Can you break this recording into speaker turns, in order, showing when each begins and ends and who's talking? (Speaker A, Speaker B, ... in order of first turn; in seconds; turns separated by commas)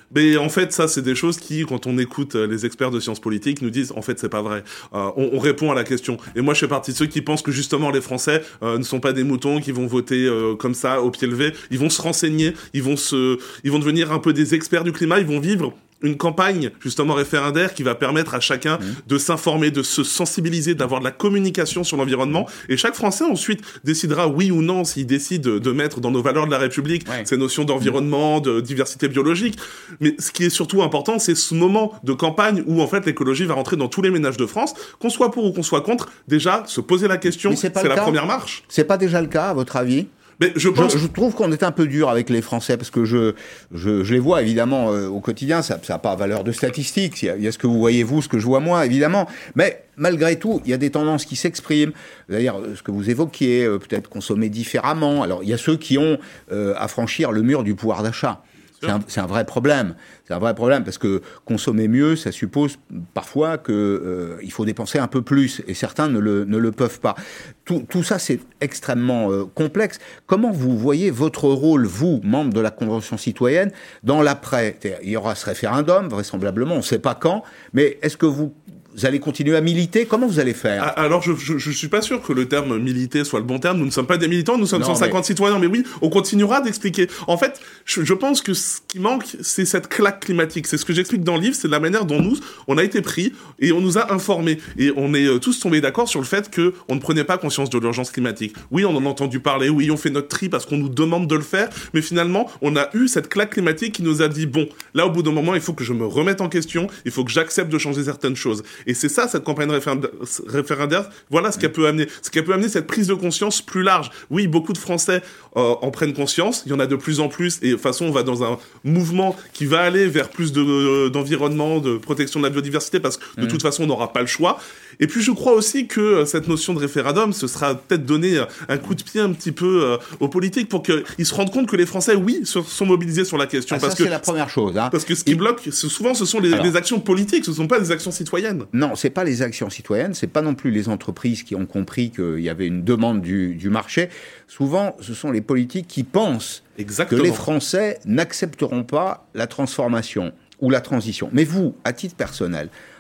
Speaker A: 0.1-38.6, Speaker B: 37.3-40.1, Speaker A: 40.4-41.0, Speaker B: 40.7-80.9, Speaker A: 80.8-134.1, Speaker B: 84.7-85.2, Speaker B: 133.7-135.4, Speaker A: 134.9-138.7, Speaker B: 138.7-152.7, Speaker A: 146.8-147.4